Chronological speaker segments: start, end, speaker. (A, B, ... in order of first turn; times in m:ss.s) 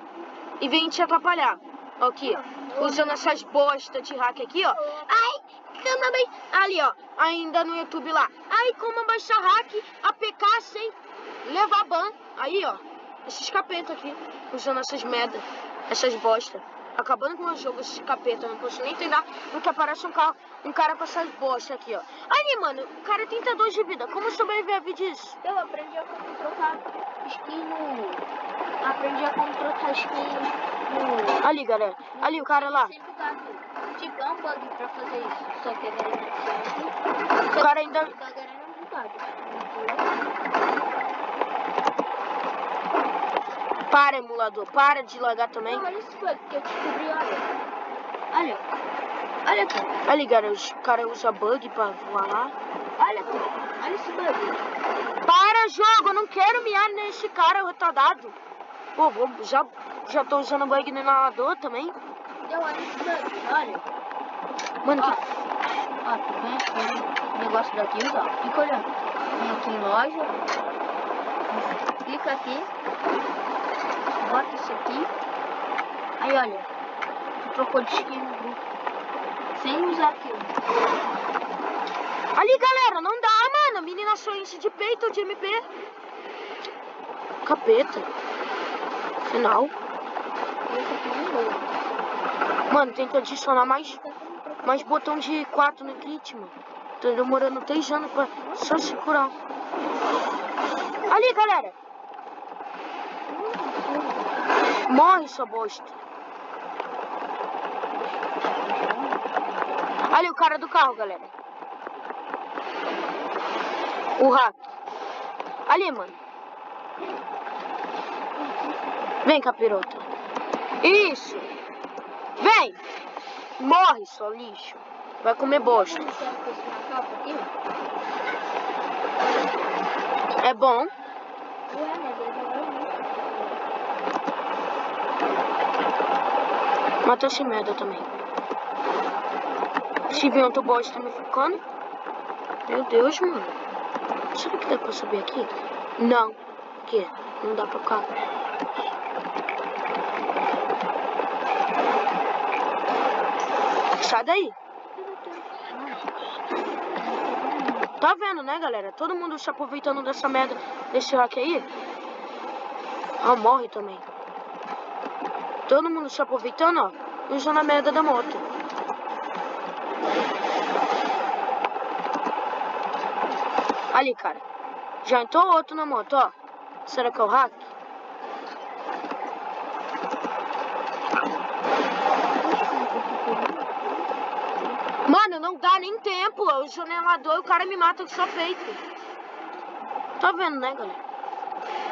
0:00.6-0:25.4 A
0:02.2-0:03.1 B
0:04.8-0:05.1 B
0:25.4-0:28.3 B
0:28.8-0:31.5 B
0:31.4-0:32.9 A
0:32.1-0:37.0 B
0:37.5-0:40.2 B
0:37.6-0:38.1 A
0:43.9-0:45.9 A
0:45.6-0:47.5 B
0:48.3-0:48.6 B
0:49.4-0:50.0 B
0:50.1-0:52.5 A
0:53.0-0:54.6 B
0:55.2-0:58.4 A
0:59.0-1:02.0 A
1:02.4-1:03.9 B
1:04.8-1:05.2 A
1:06.0-1:10.4 B
1:11.5-1:12.7 B
1:14.1-1:15.1 B
1:16.2-1:16.7 B
1:17.4-1:18.6 B
1:19.6-1:20.6 B
1:22.3-1:25.6 A
1:27.4-1:28.1 A
1:29.2-1:29.7 A
1:30.7-1:31.7 B
1:32.7-1:34.0 A
1:33.6-1:35.0 B
1:34.6-1:39.3 A
1:41.1-1:41.8 A
1:43.3-1:44.4 B
1:44.9-1:46.0 A
1:48.2-1:49.3 B
1:50.1-1:51.3 A
1:54.2-1:54.6 A
1:55.7-1:56.2 A
1:58.4-1:59.1 B
1:59.2-2:00.1 A
2:00.8-2:01.5 A
2:02.4-2:02.8 A
2:03.6-2:06.1 A
2:05.4-2:07.5 B
2:10.4-2:10.9 A
2:11.7-2:13.6 B
2:17.0-2:18.2 A
2:20.0-2:20.7 B
2:20.1-2:21.6 A
2:22.7-2:23.6 A
2:24.3-2:28.1 A
2:34.0-2:34.6 A
2:35.0-2:36.1 B
2:37.0-2:37.9 B
2:38.0-2:41.7 A
2:43.2-2:44.0 A
2:45.7-2:48.4 A
2:53.9-2:54.4 A
2:55.0-2:56.3 A
2:56.8-2:57.7 A
3:02.4-3:04.8 B
3:05.0-3:08.8 A
3:10.2-3:11.0 A